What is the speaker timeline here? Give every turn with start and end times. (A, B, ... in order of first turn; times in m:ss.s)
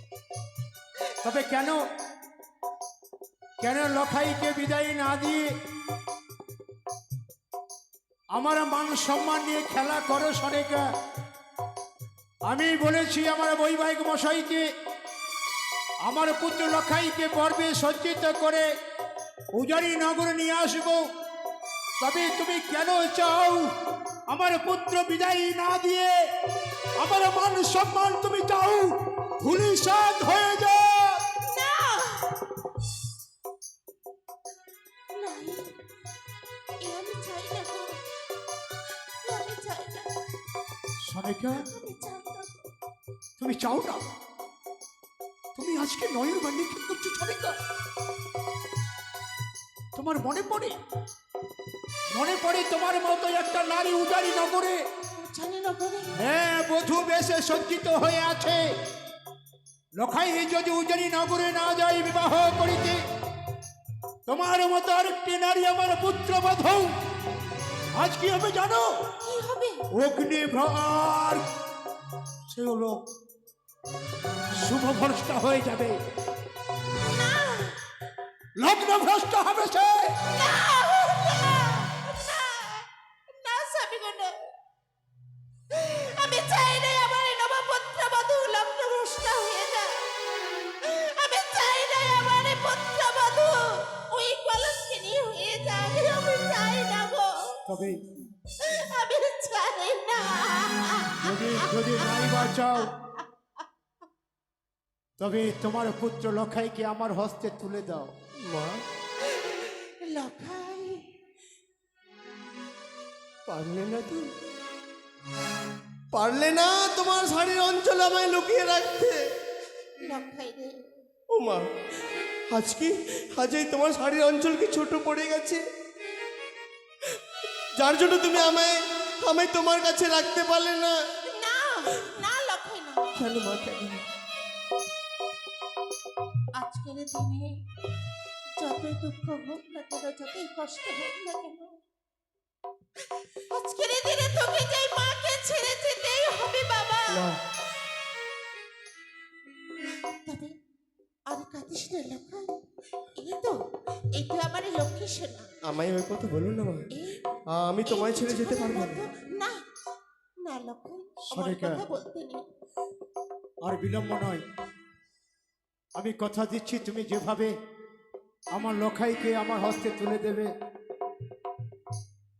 0:01.2-0:01.8 A
0:03.6-0:05.5 A
0:08.3-0:10.8 A
0:12.5-0:14.6 A
0:16.0-0:18.6 A
0:19.5-0:21.0 A
0:22.0-0:23.6 A
0:24.3-0:26.2 A
0:27.0-0:31.2 A
0:31.4-0:32.4 B
0:35.1-0:35.7 B
0:36.8-0:38.0 B
0:39.2-0:40.1 B
0:41.1-0:41.6 A
0:41.5-0:42.6 B
0:43.4-0:44.0 A
0:45.5-0:47.6 A
0:50.0-0:50.8 A
0:52.1-0:54.8 A
0:55.1-0:56.1 B
0:56.2-0:58.7 A
1:00.0-1:03.0 A
1:04.3-1:06.9 A
1:07.9-1:09.0 A
1:09.2-1:09.8 B
1:09.9-1:11.4 A
1:12.5-1:13.0 A
1:14.6-1:16.0 A
1:17.0-1:17.8 B
1:18.6-1:20.2 A
1:20.3-1:24.5 B
1:25.7-1:30.1 B
1:30.8-1:37.6 B
1:37.7-1:38.0 A
1:38.5-1:43.2 B
1:41.2-1:42.9 A
1:45.2-1:48.1 A
1:48.5-1:48.8 C
1:49.6-1:51.1 B
1:53.5-1:54.3 C
1:56.1-1:59.2 C
2:00.0-2:00.8 B
2:01.3-2:01.7 C
2:02.5-2:05.6 C
2:07.8-2:11.0 C
2:11.3-2:13.1 B
2:13.1-2:14.0 C
2:16.6-2:17.5 B
2:18.6-2:21.7 B
2:23.5-2:27.3 B
2:27.1-2:27.4 C
2:30.2-2:30.5 B
2:31.3-2:32.6 B
2:33.2-2:33.6 B
2:34.1-2:35.5 B
2:35.6-2:36.9 C
2:36.9-2:37.2 B
2:37.5-2:39.0 C
2:37.8-2:39.6 B
2:40.4-2:42.4 B
2:41.3-2:41.8 A
2:43.6-2:44.4 A
2:46.0-2:47.5 A
2:48.5-2:50.5 A